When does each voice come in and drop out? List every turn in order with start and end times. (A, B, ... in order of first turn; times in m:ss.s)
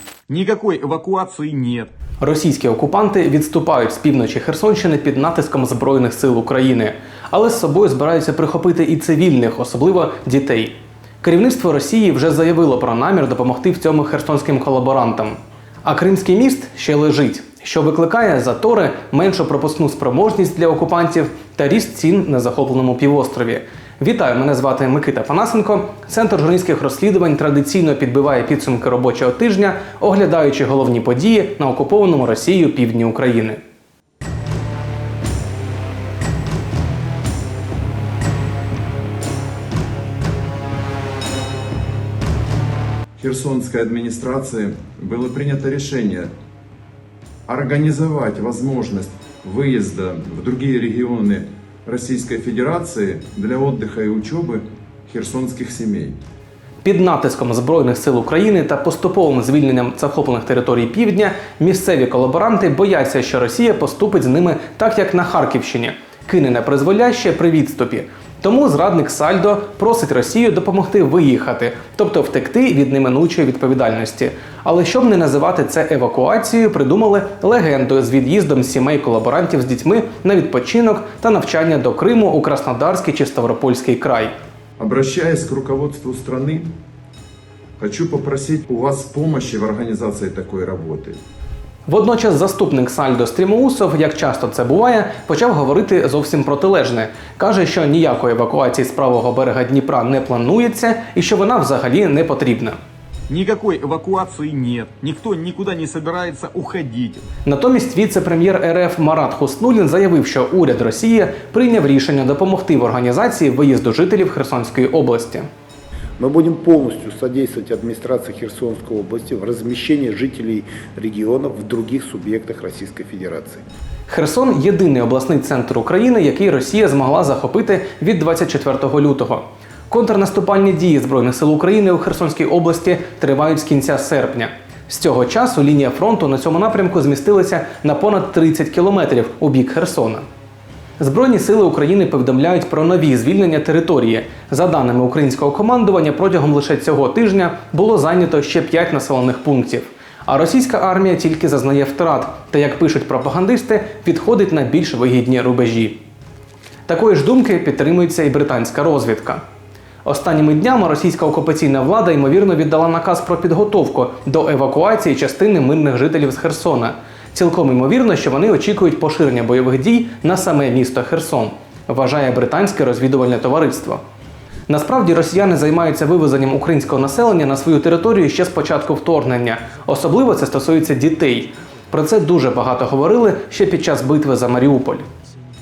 0:00.3-0:01.9 A
0:02.2-0:33.6 B
0:43.2-0:46.3 C
0:47.5-0:56.2 C
0:56.8-1:24.3 B
1:24.8-1:26.7 C
1:27.8-1:31.2 C
1:31.8-1:42.8 B
1:43.3-1:47.2 A
1:47.4-1:55.5 B
1:56.2-2:03.6 D
2:04.1-2:20.2 B
2:21.0-2:36.0 B
2:36.9-2:39.4 B
2:40.0-2:54.0 B
2:54.7-3:05.1 B